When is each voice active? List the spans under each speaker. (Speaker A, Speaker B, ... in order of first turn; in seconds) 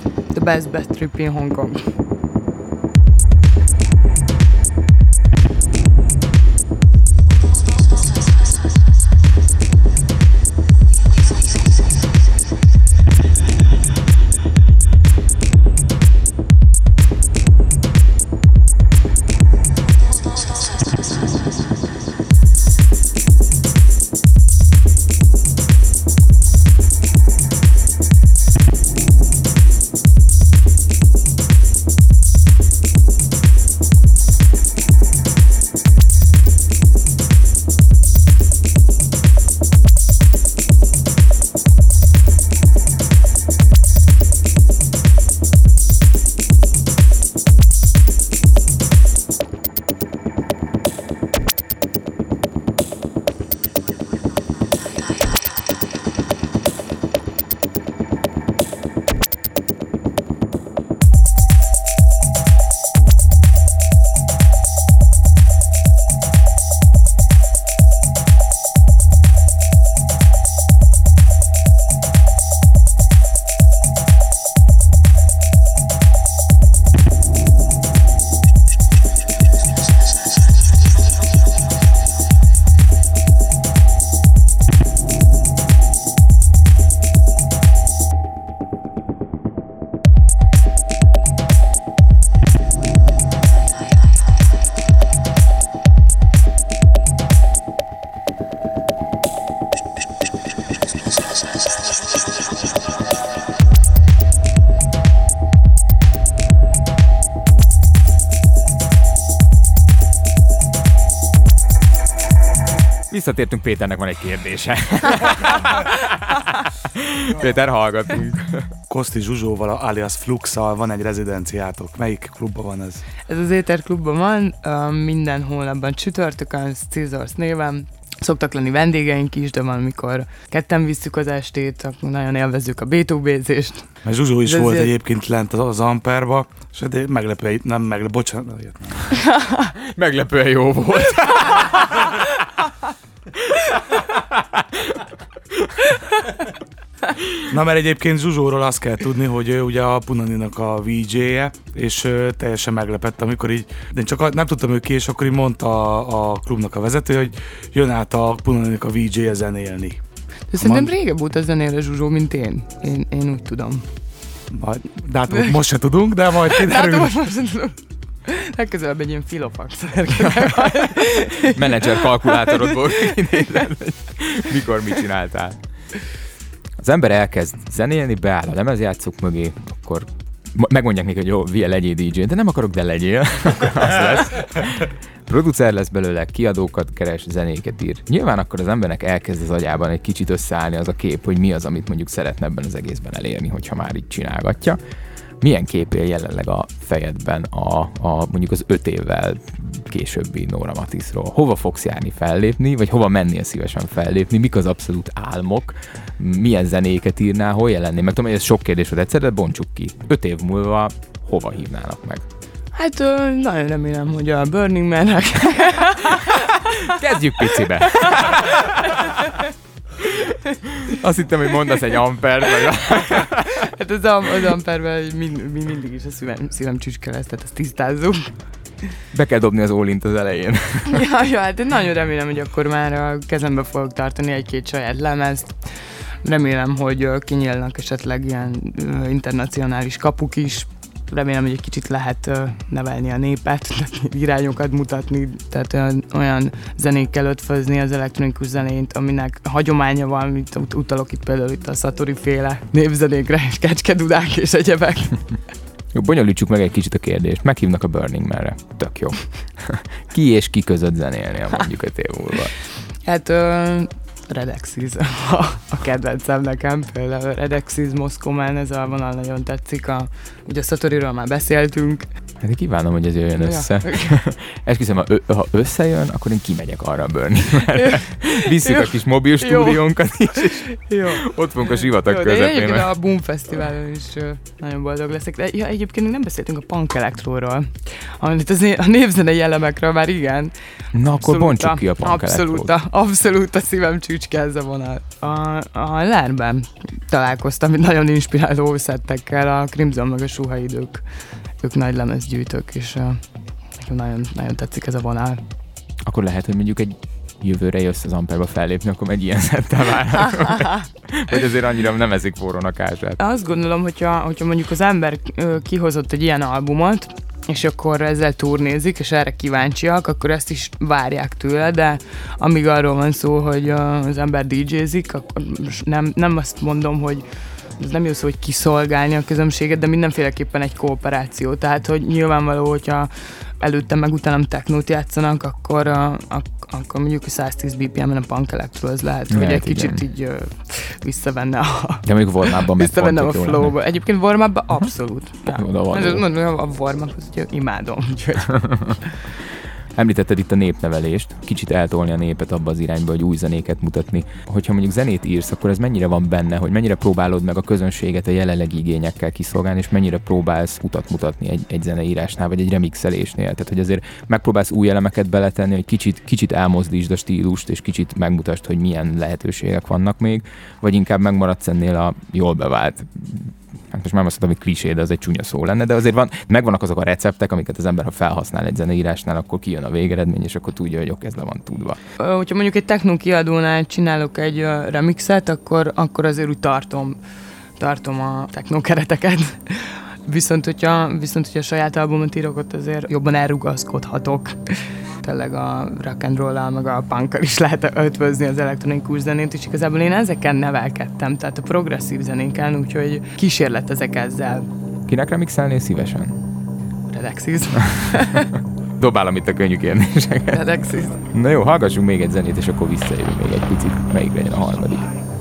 Speaker A: 0.3-1.8, 123.3-134.9, 139.2-139.7, 141.5-142.1, 160.5-163.8, 165.3-165.6, 166.5-173.7, 212.7-217.0, 217.5-219.5, 223.1-228.3, 230.9-235.6, 236.2-255.3, 263.0-272.1, 273.4-274.2, 277.7-290.5, 291.2-301.0, 301.6-303.2, 303.8-305.4, 310.3-310.8, 313.2-327.3, 327.8-333.1, 333.6-349.1, 382.2-387.2, 387.8-404.6, 407.1-408.5, 410.5-411.2
Speaker B: 113.1-118.7, 139.8-142.0, 143.6-145.7, 147.2-147.4, 170.2-175.6, 176.8-194.8, 195.4-212.2, 216.7-219.1, 220.0-223.7, 229.1-231.0, 255.9-262.5, 272.4-282.9, 290.9-292.7, 306.0-313.2, 339.3-340.0, 342.0-343.8, 345.5-346.2, 348.5-349.0, 349.9-382.0, 405.1-406.4, 409.0-415.1
Speaker C: 118.9-123.0, 134.0-139.1, 147.5-160.0, 160.6-160.9, 164.5-167.3